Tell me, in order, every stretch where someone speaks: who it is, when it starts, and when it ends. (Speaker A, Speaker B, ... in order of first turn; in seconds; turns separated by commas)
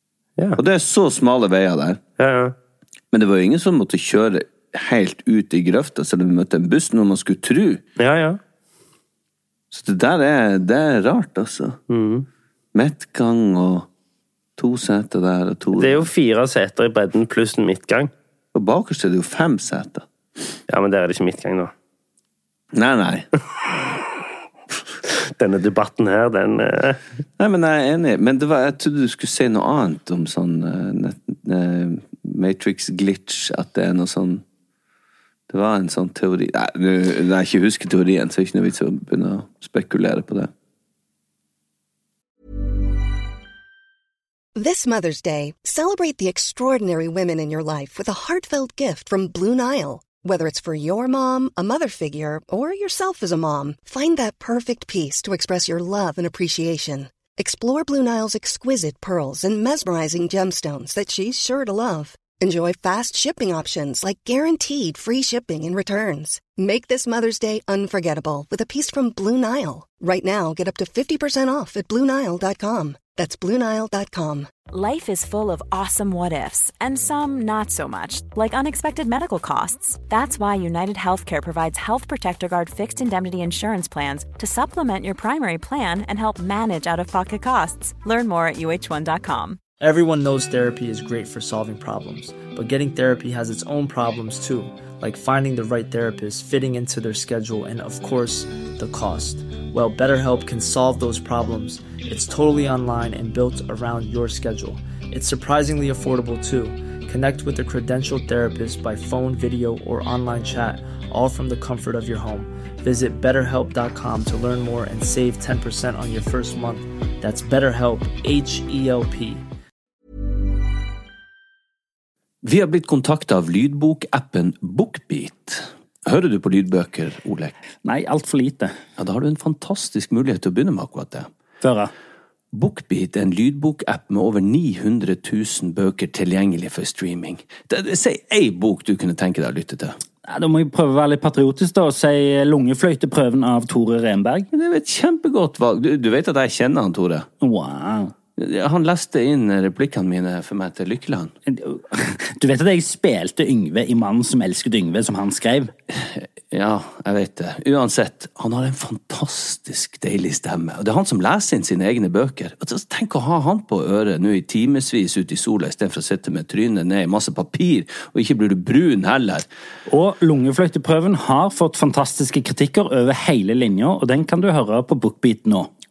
Speaker A: 0.6-2.0, Speaker B: 2.2-2.5, Speaker A: 3.1-7.8, Speaker B: 8.0-8.4, Speaker A: 9.7-11.8, Speaker B: 11.9-12.3, Speaker A: 12.7-13.9, Speaker A: 14.6-16.1, Speaker B: 15.8-18.1, Speaker A: 18.5-20.1, Speaker B: 20.7-21.7, Speaker A: 22.7-23.3, Speaker B: 25.1-27.0, Speaker A: 27.4-34.4, Speaker A: 35.5-40.5, Speaker C: 44.6-74.5, Speaker D: 74.7-89.6, Speaker E: 89.8-119.5, Speaker A: 122.4-127.5, Speaker F: 127.8-128.8, Speaker A: 129.0-131.3, Speaker F: 131.6-131.9, Speaker A: 132.5-140.0, Speaker F: 140.3-144.5, Speaker A: 144.5-147.3, Speaker F: 147.4-148.1, Speaker A: 148.4-151.3, Speaker F: 151.5-155.7, Speaker A: 155.9-169.5, Speaker F: 169.9-175.7